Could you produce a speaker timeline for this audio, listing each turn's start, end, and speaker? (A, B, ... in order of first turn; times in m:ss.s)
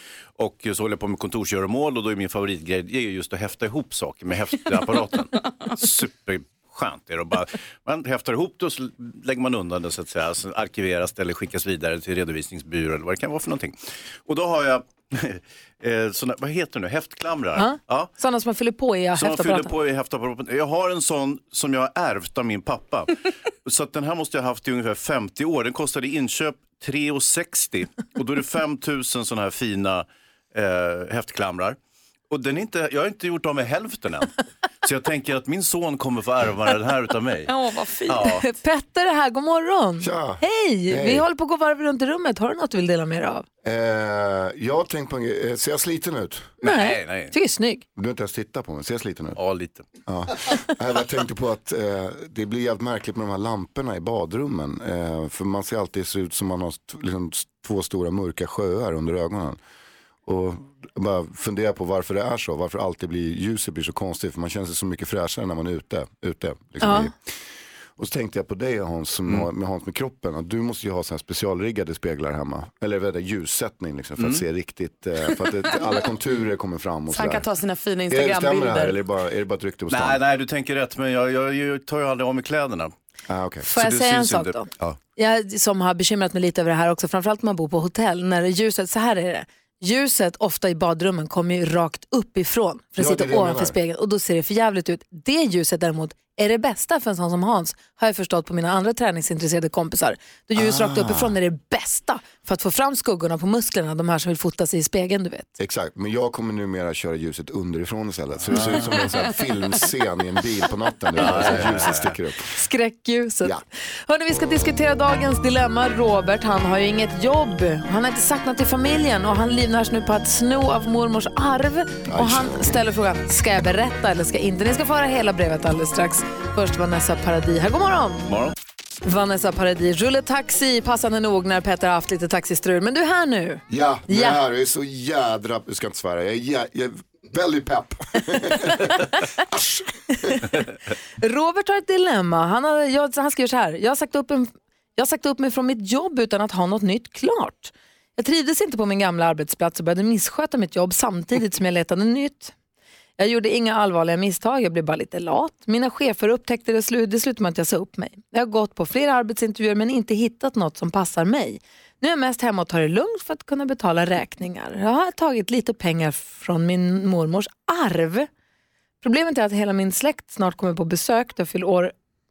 0:00.4-0:18.1 A
0:17.6-0:19.7 B
0:19.2-0:31.8 A
0:32.3-0:34.3 A
0:34.8-0:37.5 A
0:37.5-0:38.2 C
0:38.1-0:38.4 A
0:38.4-0:43.4 B
0:40.0-0:41.2 D
0:43.6-0:46.6 D
0:46.6-0:47.3 A
0:46.6-0:47.8 B
0:48.0-0:49.4 D
0:49.4-0:49.9 A
0:50.1-0:59.6 D
1:00.2-1:07.1 D
1:06.8-1:07.1 B
1:08.0-1:17.4 D
1:14.2-1:14.4 A
1:17.1-1:19.0 C
1:18.1-1:20.2 D
1:19.9-1:22.9 A
1:23.3-1:23.7 D
1:23.6-1:45.5 B
1:23.7-1:24.9 A
1:33.0-1:33.7 D
1:40.5-1:41.3 D
1:45.6-1:52.5 D
1:48.5-1:49.0 A
1:51.1-1:52.2 A
1:52.5-2:08.3 B
2:02.1-2:02.6 D
2:08.3-2:08.5 A
2:09.0-2:14.4 B
2:13.7-2:18.8 D
2:19.5-2:19.8 D
2:20.3-2:20.6 B
2:21.2-2:32.5 B
2:33.2-2:48.3 B
2:49.0-2:51.9 B